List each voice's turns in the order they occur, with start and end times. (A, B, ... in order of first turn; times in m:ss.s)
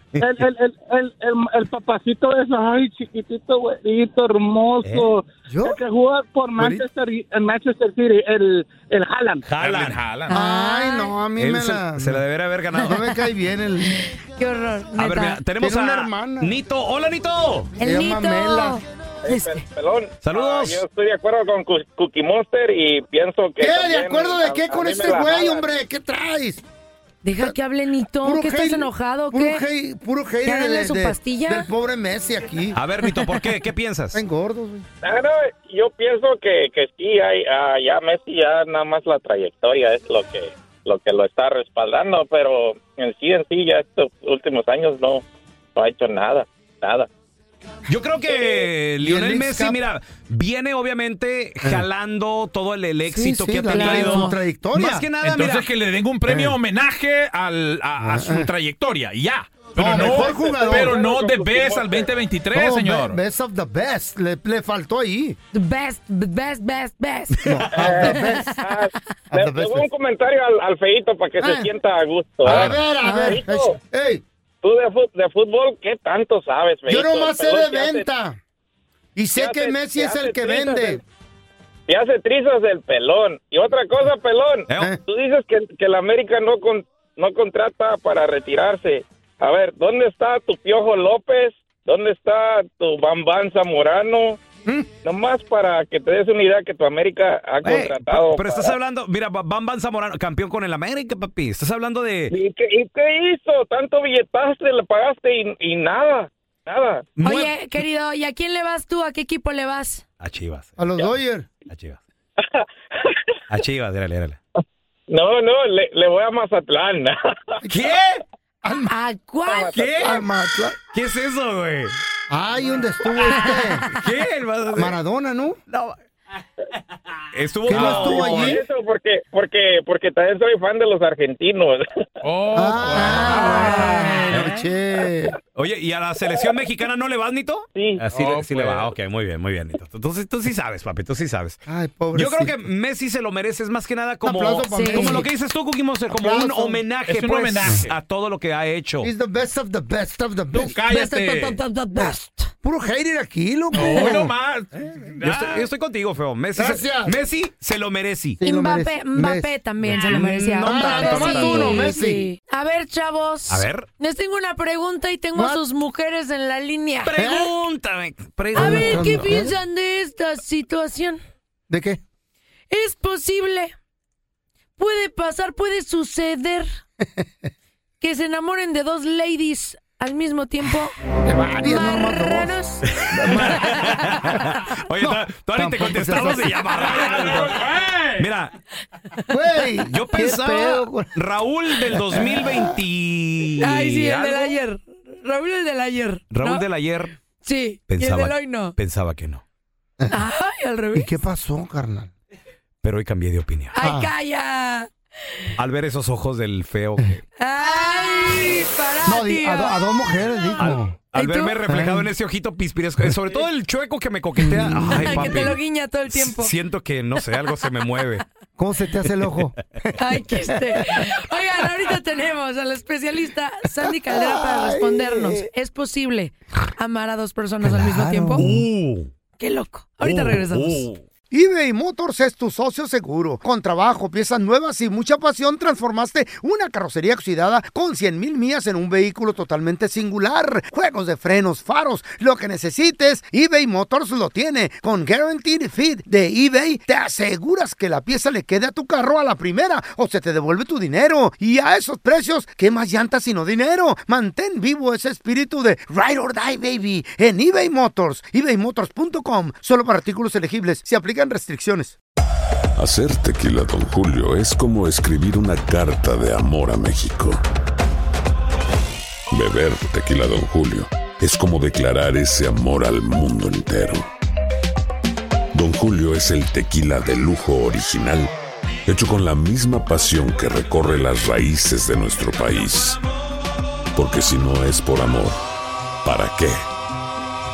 0:00.2-0:00.4 A
0:00.2-0:09.5 B
0:04.8-0:05.2 A
0:05.5-0:05.8 C
0:06.6-0:06.8 C
0:09.5-0:10.0 A
0:09.6-0:10.4 D
0:10.3-0:11.2 E
0:10.3-0:12.2 C
0:11.4-0:13.0 A
0:12.8-0:14.0 C
0:13.9-0:15.4 E
0:15.0-0:17.7 A
0:15.6-0:16.6 C
0:17.8-0:18.8 C
0:17.8-0:19.6 E
0:19.2-0:25.7 F
0:20.2-0:20.8 A
0:23.6-0:26.6 C
0:27.2-0:29.6 E
0:28.2-0:32.8 C
0:30.4-0:31.7 E
0:32.8-0:34.2 A
0:34.1-0:34.9 C
0:35.0-0:45.2 F
0:45.8-0:47.1 F
0:47.9-0:55.7 A
0:49.0-0:49.8 C
0:53.1-0:55.1 C
0:53.7-0:54.3 E
0:55.2-1:03.2 D
0:56.3-0:56.6 C
0:58.0-0:58.5 C
0:59.8-1:01.0 C
0:59.9-1:02.1 F
1:02.5-1:05.4 C
1:05.5-1:08.6 E
1:07.4-1:08.5 C
1:07.7-1:13.8 F
1:09.3-1:09.9 C
1:11.4-1:11.7 C
1:12.4-1:14.2 C
1:13.0-1:13.4 E
1:14.6-1:18.1 F
1:16.9-1:18.4 C
1:19.2-1:21.0 C
1:19.4-1:21.0 F
1:21.9-1:34.4 F
1:35.0-1:38.8 F
1:37.6-1:42.4 A
1:42.3-1:47.1 F
1:47.2-1:47.5 A
1:47.2-1:50.0 E
1:50.2-1:51.1 A
1:50.8-1:51.5 C
1:51.7-1:52.0 A
1:52.4-1:53.2 F
1:53.5-1:54.4 A
1:55.1-1:57.2 F
1:57.6-1:58.0 C
1:57.7-1:58.2 A
1:58.6-1:58.9 C
1:58.9-1:59.9 E
1:59.5-2:00.2 F
1:59.7-2:00.2 A
2:00.0-2:00.8 C
2:00.9-2:02.0 A
2:02.3-2:03.9 C
2:03.3-2:03.6 E
2:03.9-2:05.0 A
2:04.7-2:05.6 C
2:05.7-2:06.0 A
2:07.3-2:08.6 A
2:07.7-2:08.6 C
2:08.0-2:11.8 F
2:12.2-2:14.5 D
2:12.5-2:15.4 C
2:13.0-2:14.2 E
2:15.6-2:21.6 A
2:17.8-2:18.0 F
2:18.1-2:18.9 D
2:21.7-2:22.6 C
2:22.1-2:29.1 A
2:24.2-2:25.3 C
2:24.7-2:25.2 E
2:26.1-2:26.8 C
2:27.1-2:27.9 D
2:29.0-2:34.3 C
2:30.5-2:31.6 D
2:31.5-2:32.5 E
2:33.7-2:35.7 D
2:35.2-2:38.4 A
2:36.6-2:37.2 C
2:38.4-2:42.3 C
2:38.4-2:47.1 E
2:39.9-2:42.0 A
2:43.5-2:43.9 A
2:45.4-2:45.6 C
2:47.0-2:49.3 A
2:47.2-2:47.5 C
2:48.5-2:49.6 C
2:48.6-2:51.2 E
2:51.7-2:52.0 C
2:52.7-2:53.7 E
2:54.8-2:56.7 E
2:57.0-2:57.3 C
2:58.0-3:01.0 E
3:01.2-3:02.6 C
3:01.6-3:02.8 E
3:02.9-3:07.6 A
3:03.1-3:04.4 C
3:05.0-3:06.6 C
3:06.8-3:08.3 D
3:08.2-3:08.5 A
3:09.3-3:11.1 C
3:09.9-3:14.5 A
3:12.1-3:12.6 C
3:13.6-3:16.6 E
3:16.3-3:17.2 A
3:17.4-3:18.8 E
3:17.9-3:19.4 A
3:20.0-3:20.2 C
3:20.1-3:21.1 E
3:20.9-3:22.1 C
3:22.8-3:23.8 A
3:23.7-3:24.9 E
3:23.8-3:24.1 C
3:25.6-3:27.2 A
3:27.4-3:31.6 E
3:29.0-3:31.0 C
3:30.6-3:35.6 A
3:31.7-3:32.1 C
3:34.4-3:35.5 C
3:34.7-3:36.5 E
3:36.1-3:38.2 A
3:38.6-3:41.1 C
3:40.0-3:48.4 E
3:43.8-3:45.5 C
3:47.6-3:48.7 C
3:48.4-3:49.1 A
3:49.4-3:50.9 E
3:50.0-3:51.0 A
3:51.3-4:22.0 C
4:22.8-4:27.4 G
4:29.3-4:34.1 G
4:35.5-4:38.3 G
4:38.9-4:43.0 G
4:44.0-4:45.4 G
4:46.0-4:46.6 G